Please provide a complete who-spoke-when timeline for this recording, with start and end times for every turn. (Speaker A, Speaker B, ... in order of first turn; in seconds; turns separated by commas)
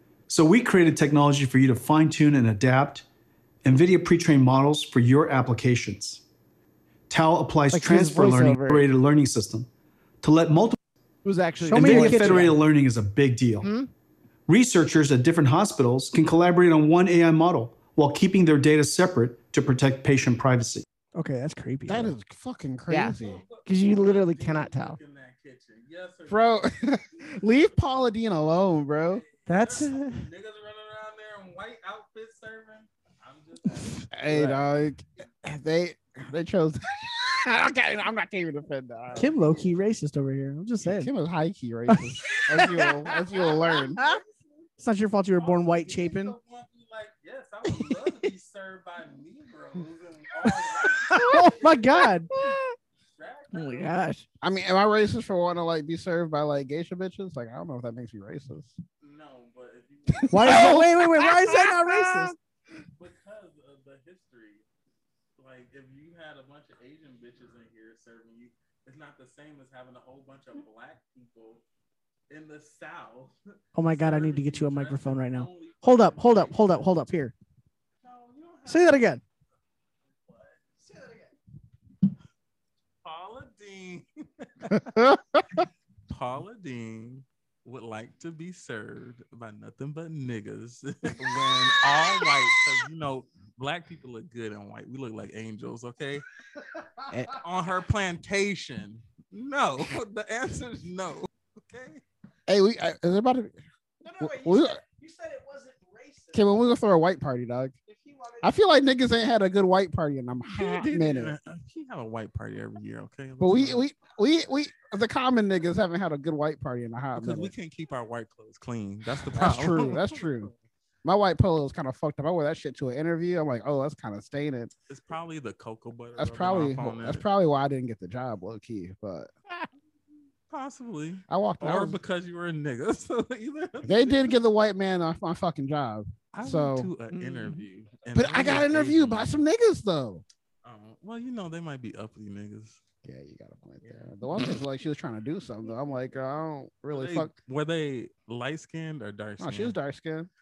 Speaker A: 0.3-3.0, Speaker A: 3.6-6.2, Speaker A: 7.1-9.7, Speaker B: 7.7-8.9, Speaker A: 10.2-10.8, Speaker B: 11.2-12.6, Speaker C: 11.6-12.5, Speaker A: 11.7-13.7, Speaker B: 13.6-13.9, Speaker A: 14.5-20.9, Speaker C: 21.1-22.1, Speaker D: 21.9-23.4, Speaker B: 22.9-25.0, Speaker E: 23.2-26.7, Speaker D: 26.3-29.2, Speaker E: 29.1-34.1, Speaker C: 29.5-30.2, Speaker D: 34.1-39.3, Speaker C: 34.3-34.6, Speaker C: 39.2-41.1, Speaker D: 40.8-44.0, Speaker C: 41.9-43.1, Speaker E: 44.0-44.7, Speaker C: 44.8-46.4, Speaker E: 45.4-51.9, Speaker C: 51.1-52.3, Speaker E: 53.2-54.0, Speaker B: 53.5-54.2, Speaker D: 54.4-58.8, Speaker E: 59.0-60.8, Speaker C: 60.3-62.3, Speaker B: 60.4-62.3, Speaker D: 60.5-60.8, Speaker E: 63.0-64.6, Speaker E: 65.4-71.6, Speaker E: 72.3-76.6, Speaker C: 73.8-77.3, Speaker E: 78.0-79.1, Speaker C: 78.7-79.2, Speaker E: 80.1-80.6, Speaker E: 83.0-85.0, Speaker D: 84.7-85.4, Speaker E: 86.1-96.2, Speaker D: 97.1-97.4, Speaker E: 97.4-102.0, Speaker D: 102.5-103.6, Speaker C: 104.0-106.4, Speaker D: 104.2-104.8, Speaker D: 106.3-107.7, Speaker C: 107.9-108.5, Speaker D: 108.4-111.3, Speaker E: 110.5-113.9, Speaker D: 113.4-117.5, Speaker E: 117.2-120.5, Speaker D: 119.3-120.5, Speaker D: 121.0-124.7, Speaker E: 124.9-127.2, Speaker D: 126.2-129.3, Speaker E: 130.5-134.4, Speaker D: 131.3-132.0, Speaker D: 133.8-136.9, Speaker E: 136.3-139.3, Speaker B: 137.1-137.7, Speaker D: 138.1-140.2, Speaker E: 140.6-142.8, Speaker D: 143.0-147.3, Speaker E: 146.9-149.8, Speaker D: 149.4-150.3